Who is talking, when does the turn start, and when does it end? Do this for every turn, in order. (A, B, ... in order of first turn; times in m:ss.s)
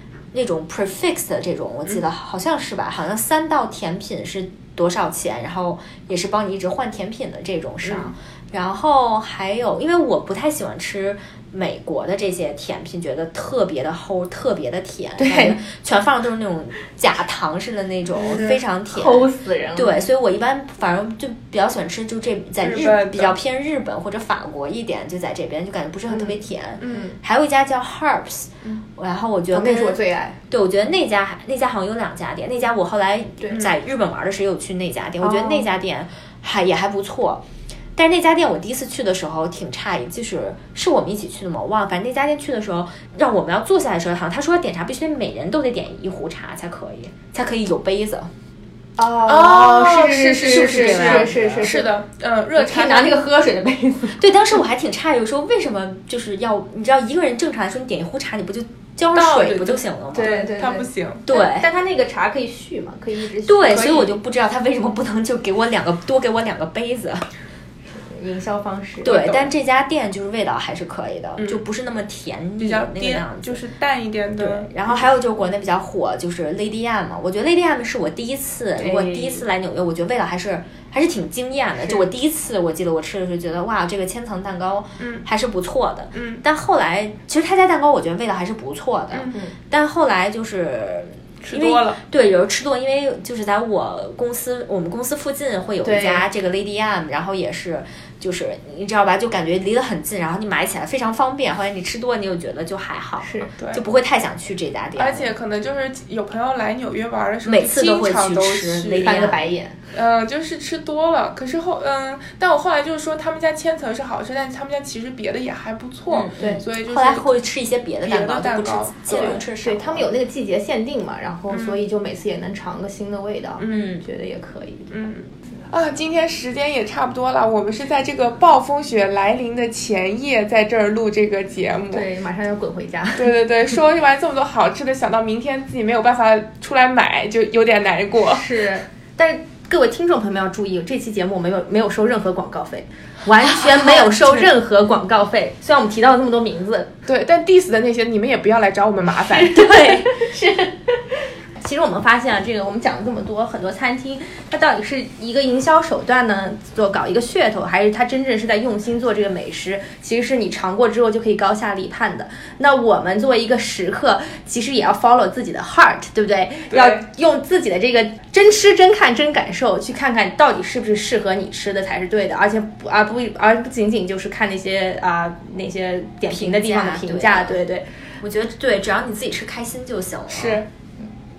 0:00.3-0:37.4 A
0:15.2-0:15.6 B
0:18.3-0:20.0 B
0:22.6-0:23.4 C
0:26.8-0:27.1 C
0:26.8-0:27.1 B
0:29.5-0:30.4 B
0:35.2-0:35.6 B
0:38.0-0:48.3 A
0:49.0-0:51.9 B
0:49.3-0:53.2 C
0:50.4-0:51.7 A
0:52.6-0:54.2 B
0:54.2-1:00.5 A
0:59.1-1:01.2 C
1:00.1-1:04.1 B
1:01.2-1:01.7 A
1:03.4-1:07.2 A
1:07.9-1:09.5 B
1:09.0-1:13.6 A
1:12.6-1:14.7 C
1:14.4-1:45.3 A
1:18.8-1:19.4 B
1:21.8-1:22.1 B
1:25.0-1:25.2 C
1:26.1-1:26.4 C
1:31.4-1:32.0 C
1:35.8-1:36.2 B
1:43.2-1:43.5 B
1:45.0-1:49.3 C
1:47.4-1:49.4 A
1:49.0-1:49.7 B
1:49.9-1:57.3 C
1:56.1-2:00.1 A
1:58.0-1:59.5 C
1:59.1-2:05.1 B
2:01.5-2:01.8 C
2:03.6-2:04.0 C
2:03.7-2:04.0 A
2:04.9-2:12.1 C
2:11.9-2:13.3 B
2:13.2-2:18.5 C
2:18.2-2:26.9 B
2:23.4-2:24.5 A
2:27.0-2:29.8 C
2:29.3-2:57.8 B
2:46.7-2:47.0 C
2:56.3-2:57.6 A
2:58.2-3:00.6 A
3:00.3-3:00.7 C